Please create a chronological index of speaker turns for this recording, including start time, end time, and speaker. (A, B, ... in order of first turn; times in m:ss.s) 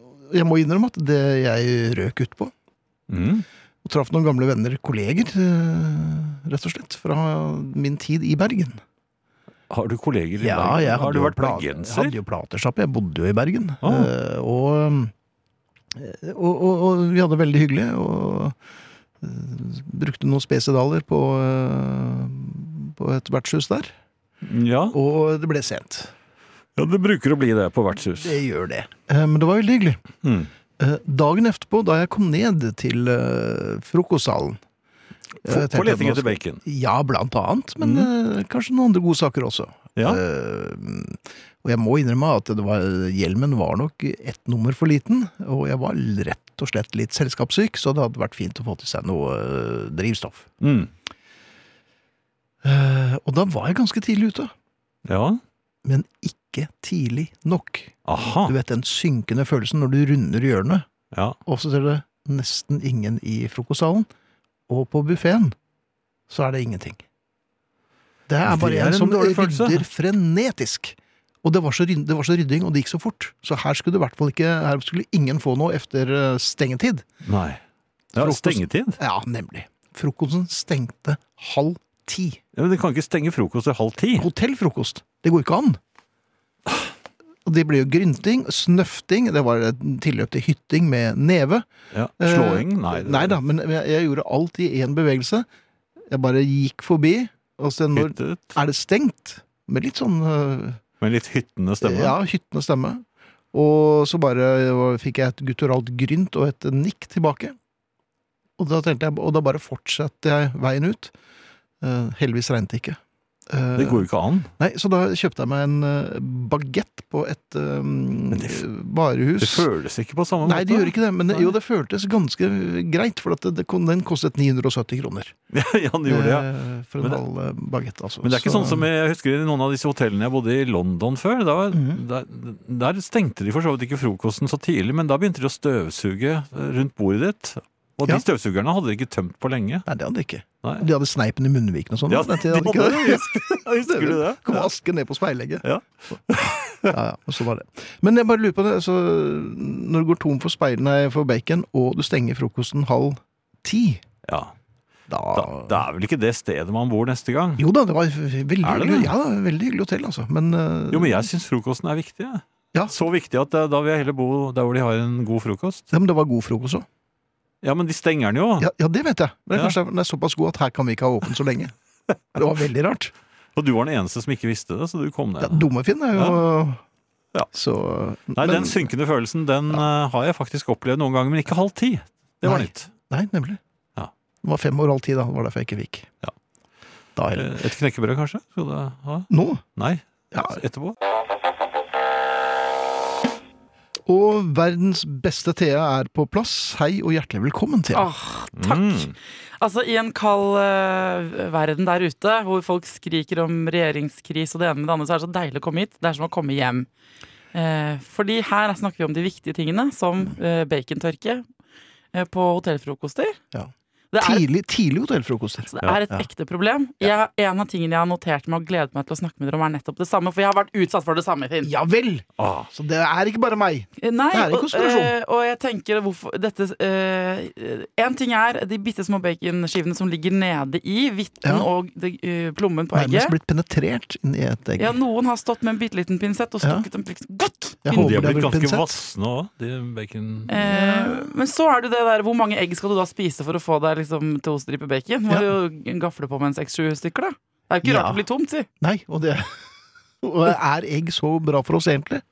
0:00.2-0:02.5 A
0:03.1-0:03.4 B
0:03.8-0:08.8 A
0:09.7-0:12.1 B
0:10.4-0:15.1 A
0:13.8-0:14.1 B
0:15.9-0:18.6 A
0:19.2-0:23.9 A
0:24.4-0:25.0 B
0:24.9-0:26.1 A
0:26.8-0:28.4 B
0:28.2-0:30.0 A
0:30.2-0:30.5 B
0:30.8-0:34.6 A
0:35.4-0:50.5 A
0:35.4-0:36.6 B
0:37.8-0:38.1 B
0:40.0-0:40.2 B
0:50.6-0:50.9 B
0:52.6-0:54.5 A
0:55.0-0:55.4 B
0:55.8-1:00.9 A
0:58.1-0:58.5 B
1:01.4-1:04.1 A
1:04.7-1:05.5 A
1:06.3-1:07.0 A
1:08.3-1:17.0 A
1:08.4-1:09.8 B
1:17.2-1:17.6 B
1:18.1-1:19.0 B
1:18.1-1:22.4 A
1:22.6-1:24.3 B
1:24.2-1:25.8 A
1:27.4-1:31.7 A
1:31.9-1:33.4 B
1:32.2-1:35.4 A
1:36.1-1:40.8 A
1:37.9-1:38.6 B
1:41.0-1:42.2 B
1:41.8-1:47.6 A
1:48.6-1:51.1 A
1:51.8-1:54.1 A
1:53.8-1:54.5 B
1:54.6-1:59.7 A
1:59.4-2:01.5 B
2:00.4-2:05.4 A
2:05.5-2:06.5 B
2:06.1-2:08.9 A
2:08.2-2:19.8 B
2:11.7-2:12.0 A
2:19.8-2:25.6 A
2:22.1-2:24.7 B
2:25.6-2:26.9 B
2:26.8-2:34.0 A
2:34.2-2:34.5 B
2:35.1-2:35.8 A
2:35.3-2:37.6 B
2:37.6-2:41.3 A
2:38.6-2:39.1 B
2:40.9-2:45.9 B
2:45.9-2:46.8 A
2:47.6-2:48.7 B
2:48.6-2:51.7 A
2:52.3-2:53.1 A
2:53.6-2:56.4 B
2:55.4-2:56.8 A
2:57.5-2:58.9 A
2:58.3-3:02.9 B
3:02.4-3:03.6 A
3:04.4-3:06.1 A
3:07.2-3:07.6 A
3:07.3-3:10.9 B
3:09.3-3:09.6 A
3:10.3-3:10.6 A
3:14.1-3:18.1 A
3:17.9-3:26.9 C
3:18.5-3:19.1 B
3:27.5-3:31.4 C
3:32.1-3:33.4 C
3:33.5-3:36.2 A
3:34.1-3:34.4 C
3:35.6-3:41.7 C
3:41.6-3:45.1 A
3:42.4-3:42.7 B
3:44.0-3:53.3 C
3:51.4-3:51.7 A
3:52.9-3:54.9 A
3:54.8-3:58.2 C
3:57.8-3:59.0 A
3:57.9-4:00.5 B
4:00.5-4:08.7 C
4:00.5-4:01.3 A
4:07.8-4:08.2 A
4:08.8-4:09.7 A
4:10.2-4:12.2 A